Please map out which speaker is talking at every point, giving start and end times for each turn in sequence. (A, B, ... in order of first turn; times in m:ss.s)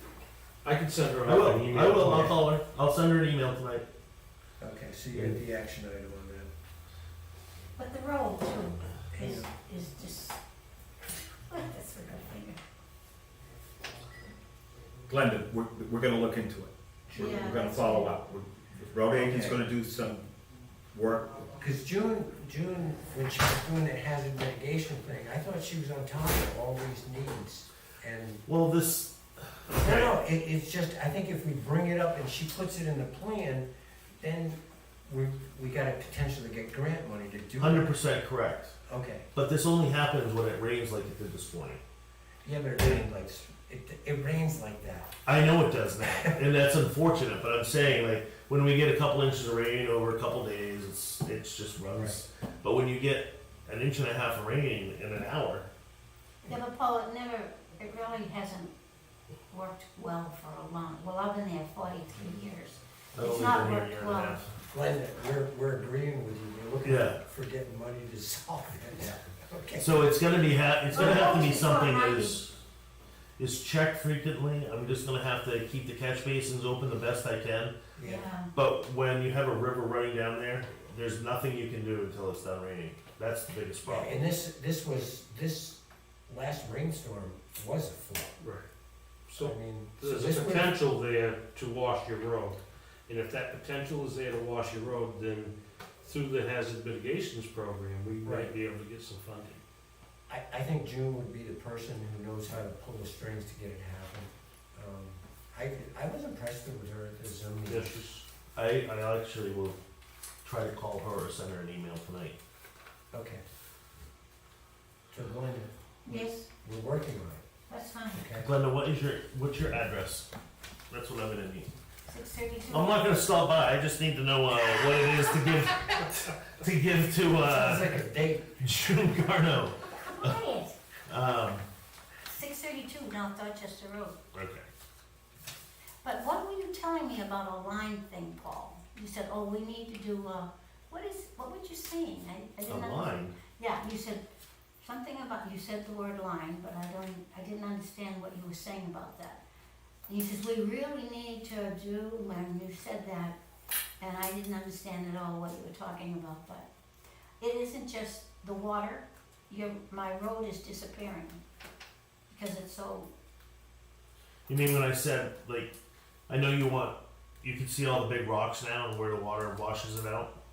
0:00.6-0:02.4 A
0:01.2-0:03.9 B
0:02.0-0:02.4 C
0:04.6-0:06.5 C
0:05.1-0:05.4 B
0:07.8-0:10.4 D
0:09.1-0:09.5 C
0:11.5-0:12.6 D
0:15.1-0:20.3 E
0:17.1-0:17.7 C
0:17.1-0:18.1 D
0:19.1-0:19.6 C
0:20.9-0:21.5 E
0:21.6-0:28.4 C
0:28.5-0:30.1 B
0:29.7-0:37.9 C
0:37.6-0:38.8 B
0:38.9-0:39.3 C
0:39.3-0:41.8 B
0:42.4-0:45.1 C
0:45.2-0:55.7 B
0:46.0-0:46.4 C
0:56.4-0:58.7 D
0:59.5-1:04.4 D
1:03.1-1:04.5 B
1:04.7-1:10.1 C
1:06.8-1:07.2 B
1:09.8-1:12.6 B
1:10.9-1:12.4 D
1:13.4-1:17.8 B
1:18.0-1:18.3 C
1:18.0-1:18.5 D
1:18.5-1:24.2 B
1:23.8-1:28.4 C
1:28.4-1:28.6 A
1:29.3-1:39.6 A
1:29.4-1:30.7 C
1:38.2-1:38.5 C
1:40.3-1:48.1 C
1:47.7-1:48.2 A
1:48.5-1:49.8 B
1:50.4-1:52.4 B
1:53.1-1:53.4 C
1:55.1-1:57.4 C
1:56.0-1:56.5 D
1:57.7-1:58.2 D
1:58.1-1:58.5 C
1:58.4-2:00.3 B
2:00.9-2:01.7 B
2:02.1-2:03.2 D
2:02.7-2:08.0 B
2:07.4-2:08.5 C
2:08.6-2:10.4 B
2:10.0-2:10.8 D
2:11.1-2:11.6 B
2:12.3-2:14.2 D
2:14.3-2:14.7 B
2:16.0-2:24.2 D
2:22.7-2:23.4 B
2:24.8-2:29.4 D
2:30.1-2:33.4 D
2:34.0-2:36.7 D
2:37.4-2:41.4 D
2:42.3-2:43.1 D
2:44.5-2:45.7 B
2:46.3-2:50.3 B